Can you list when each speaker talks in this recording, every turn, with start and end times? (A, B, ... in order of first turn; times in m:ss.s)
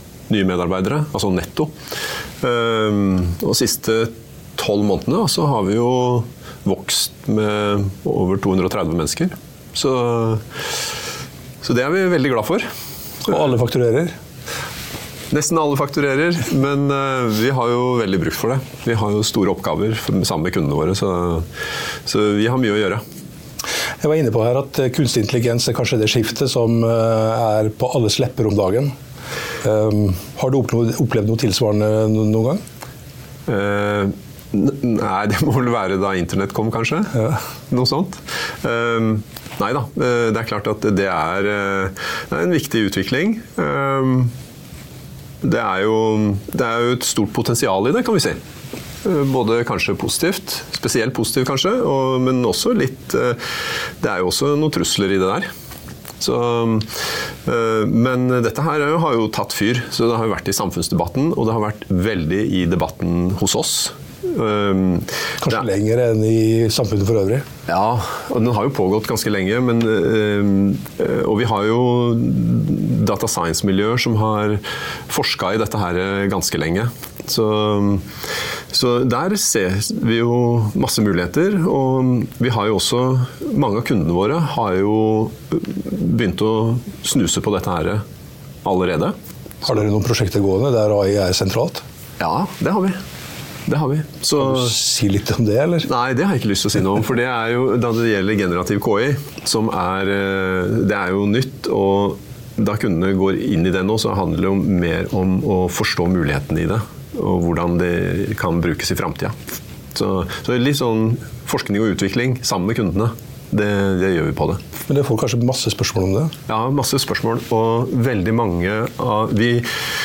0:00.3-0:01.7 A
0:02.4-0:10.8 A
0:11.6-0:12.7 A
0:13.2-0:14.1 B
0:15.3-0:21.5 A
0:22.0-0:23.0 A
0:24.0-0:28.9 B
0:29.6-0:32.6 B
0:33.5-0:37.1 A
0:37.7-0:44.3 A
0:45.4-0:48.4 A
0:49.0-0:55.5 A
0:56.2-1:05.6 A
1:05.4-1:07.4 B
1:07.7-1:18.1 A
1:18.7-1:28.0 A
1:28.6-1:29.2 A
1:29.6-1:31.8 B
1:32.2-1:33.0 A
1:33.7-1:34.7 A
1:34.4-1:35.9 B
1:35.8-1:49.4 A
1:49.9-1:54.6 A
1:54.9-1:56.3 B
1:56.5-1:59.7 A